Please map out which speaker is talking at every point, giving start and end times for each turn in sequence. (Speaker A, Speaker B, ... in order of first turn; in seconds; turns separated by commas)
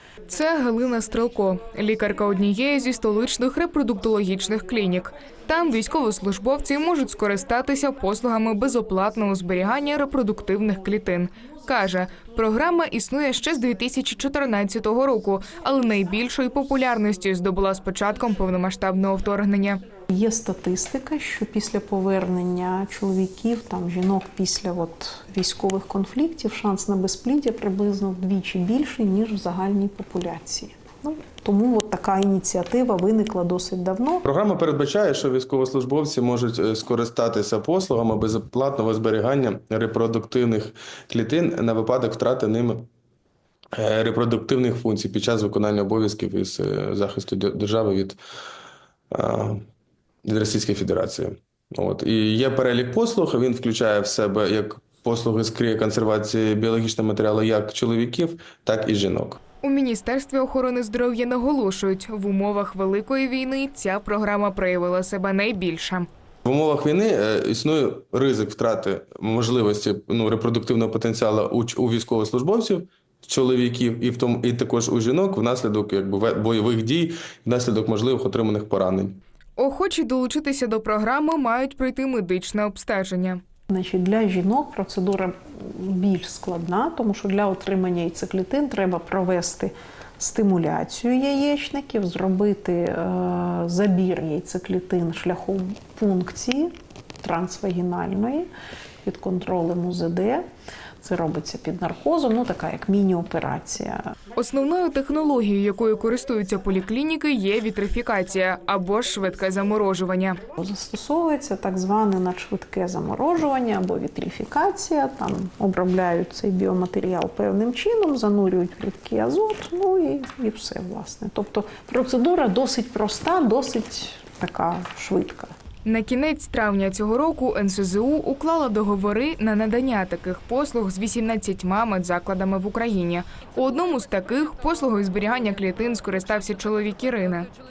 Speaker A: 0.3-19.8, Speaker B: 20.1-34.2, Speaker C: 34.2-42.9, Speaker C: 43.8-48.2, Speaker C: 49.1-49.7, Speaker C: 50.2-59.4, Speaker A: 59.6-66.1, Speaker C: 66.4-79.2, Speaker A: 79.6-83.4, Speaker B: 83.7-98.5, Speaker B: 99.0-100.4, Speaker B: 101.0-104.0, Speaker A: 104.3-110.4, Speaker B: 110.5-125.5, Speaker A: 125.8-137.5